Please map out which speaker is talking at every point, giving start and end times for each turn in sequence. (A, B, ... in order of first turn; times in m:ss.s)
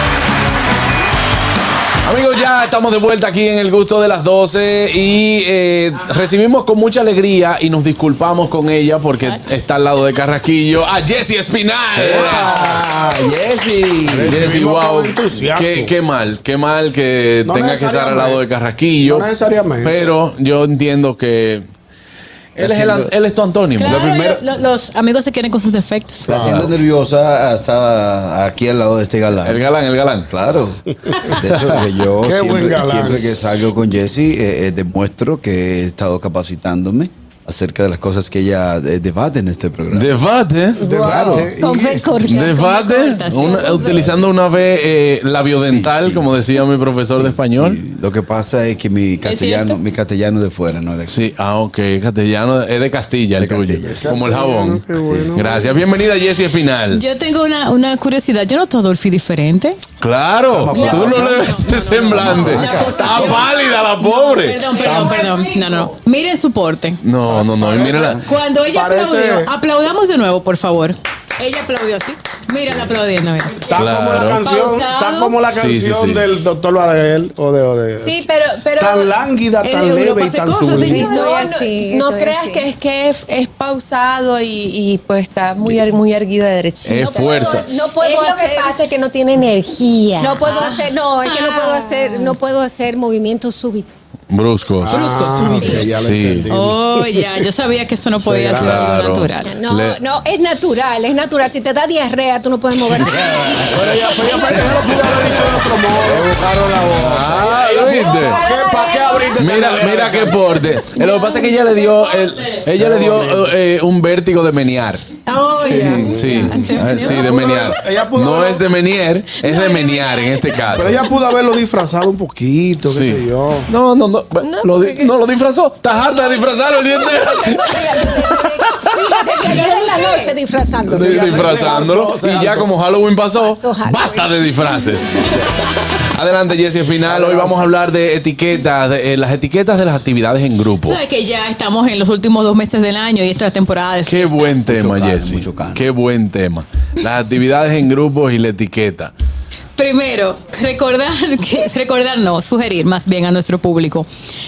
0:02.0-0:12.6 A
0:12.0-0:14.5 B
0:12.0-0:12.8 C
0:14.1-0:15.9 C
0:14.2-0:19.3 A
0:17.4-0:18.4 C
0:19.0-0:20.1 C
0:19.8-0:21.6 A
0:22.6-0:24.0 A
0:22.6-0:23.1 B
0:23.8-0:26.3 D
0:23.8-0:24.4 B
0:26.3-0:26.6 C
0:26.3-0:29.6 B
0:26.4-0:26.7 A
0:29.4-0:30.3 A
0:30.3-0:40.1 B
0:32.2-0:33.2 C
0:39.9-0:41.3 A
0:40.8-0:42.6 E
0:40.8-0:42.2 C
0:42.2-0:47.8 A
0:42.3-0:44.0 D
0:45.6-0:46.3 B
0:47.1-0:51.2 B
0:49.2-0:49.8 D
0:51.1-0:54.8 A
0:53.4-0:54.2 B
0:54.0-0:55.7 C
0:55.1-0:55.6 B
0:55.4-0:57.0 A
0:56.9-0:59.8 D
1:00.0-1:04.7 A
1:00.6-1:01.6 C
1:00.6-1:01.4 B
1:01.8-1:03.4 D
1:02.1-1:03.4 B
1:04.3-1:07.0 D
1:04.8-1:05.3 B
1:07.0-1:08.2 A
1:07.3-1:09.5 C
1:08.2-1:13.6 D
1:13.7-1:18.2 C
1:13.8-1:14.5 A
1:14.4-1:15.4 D
1:15.5-1:16.3 A
1:18.0-1:19.1 E
1:18.8-1:21.2 C
1:19.6-1:21.3 D
1:20.7-1:22.7 E
1:20.9-1:30.6 F
1:26.8-1:27.7 A
1:27.0-1:28.8 E
1:30.2-1:33.9 E
1:30.4-1:32.2 D
1:34.3-1:36.5 A
1:34.8-1:37.3 C
1:35.4-1:35.9 E
1:36.5-1:39.5 D
1:38.2-1:38.9 C
1:38.6-1:40.0 A
1:39.4-1:45.1 E
1:43.7-1:46.3 C
1:44.7-1:45.0 B
1:46.0-1:47.5 B
1:47.0-1:48.4 A
1:47.4-1:50.4 C
1:48.1-1:49.4 E
1:48.4-1:48.7 F
1:49.4-1:55.0 A
1:52.8-1:53.5 C
1:55.3-1:57.2 D
1:55.8-1:58.6 C
1:56.1-2:01.1 A
1:59.4-2:00.6 D
2:00.7-2:03.7 C
2:02.9-2:08.9 A
2:04.4-2:05.1 F
2:07.5-2:11.7 E
2:07.8-2:08.4 F
2:08.9-2:10.4 F
2:10.9-2:21.0 A
2:10.9-2:12.7 C
2:13.3-2:14.9 E
2:17.0-2:17.6 C
2:20.8-2:24.6 D
2:24.1-2:29.1 A
2:24.6-2:25.9 B
2:29.8-2:34.1 D